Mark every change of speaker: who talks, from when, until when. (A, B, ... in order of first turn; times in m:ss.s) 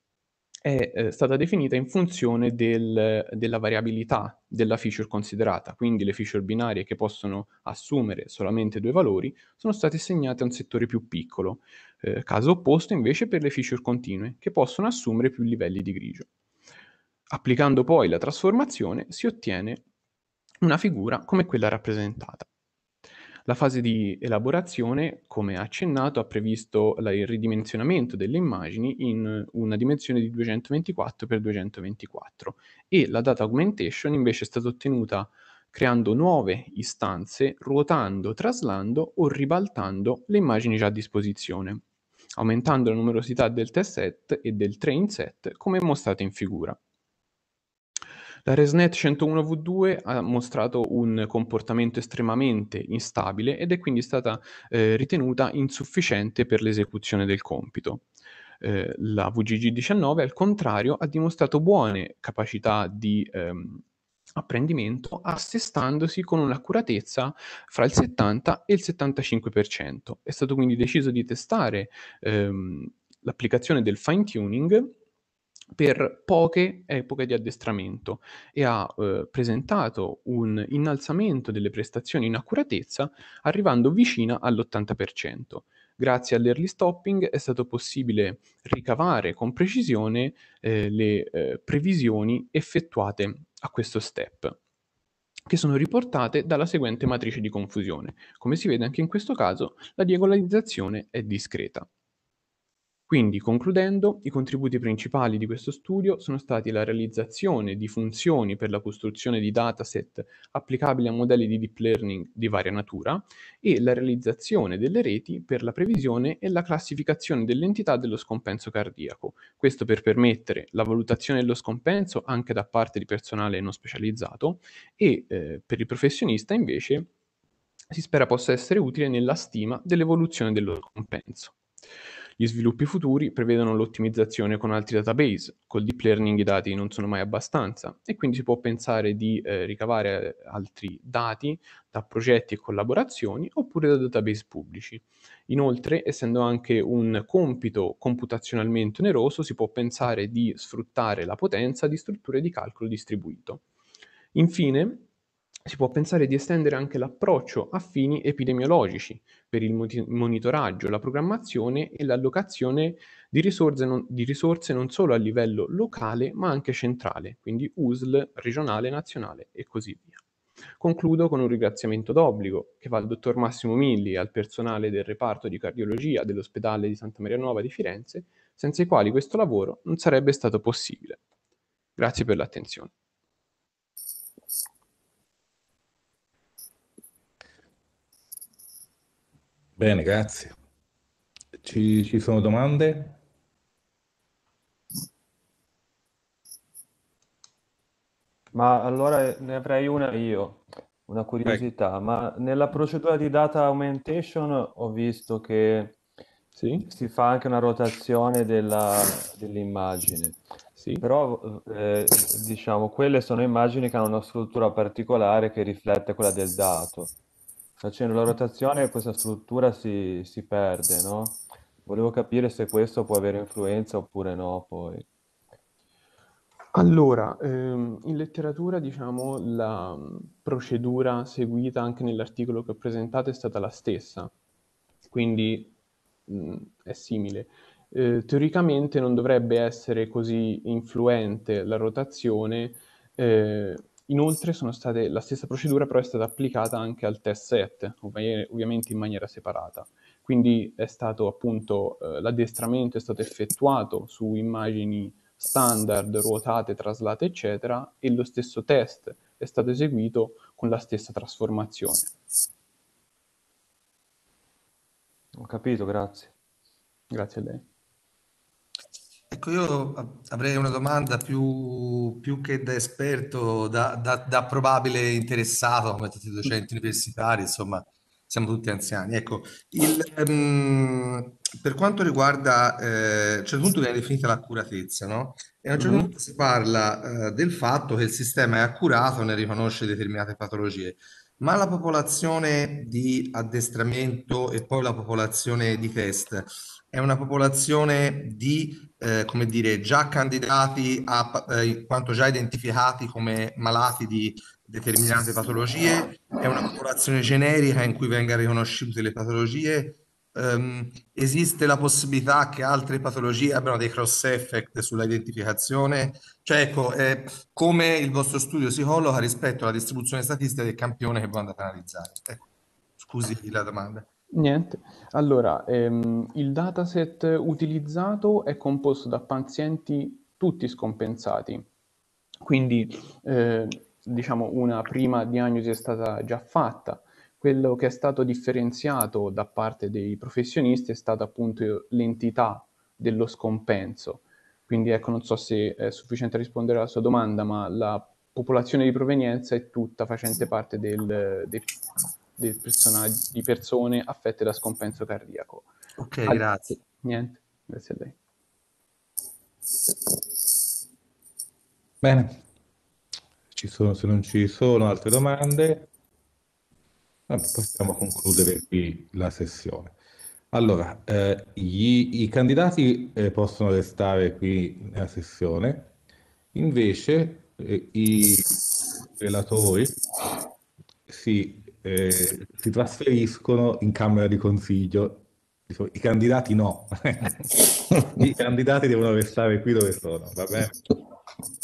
0:00.6-0:16.3 A
0:17.3-0:19.8 A
0:20.6-0:22.5 A
0:23.4-0:41.8 A
0:42.4-0:46.8 A
0:48.4-0:58.1 A
0:58.6-1:03.8 A
1:04.4-1:14.9 A
1:15.7-1:34.6 A
1:35.5-1:41.9 A
1:43.1-2:07.1 A
2:07.9-2:11.6 A
2:12.4-2:33.6 A
2:34.3-2:35.0 A
2:35.6-2:50.2 A
2:50.8-3:01.2 A
3:02.0-3:02.9 A
3:09.8-3:10.6 B
3:11.6-3:13.2 B
3:18.5-3:26.0 C
3:26.6-3:26.9 A
3:26.8-3:30.4 C
3:30.8-3:31.0 A
3:31.0-3:37.1 C
3:37.8-3:45.1 C
3:46.7-3:54.3 A
3:55.1-3:55.7 A
3:56.3-4:22.1 A
4:25.3-4:26.3 C
4:27.1-4:27.6 A
4:29.3-5:22.4 D
4:45.8-4:46.1 B
5:23.0-5:24.1 D
5:24.3-5:31.7 A
5:32.4-5:51.8 A
5:52.4-5:55.7 A
5:56.0-5:56.8 D
5:56.3-5:58.2 A
6:02.0-6:02.4 B
6:03.5-6:05.9 B
6:07.3-6:09.9 B
6:10.5-6:15.9 B
6:16.5-6:18.5 B
6:19.1-6:19.9 B
6:21.1-6:30.8 B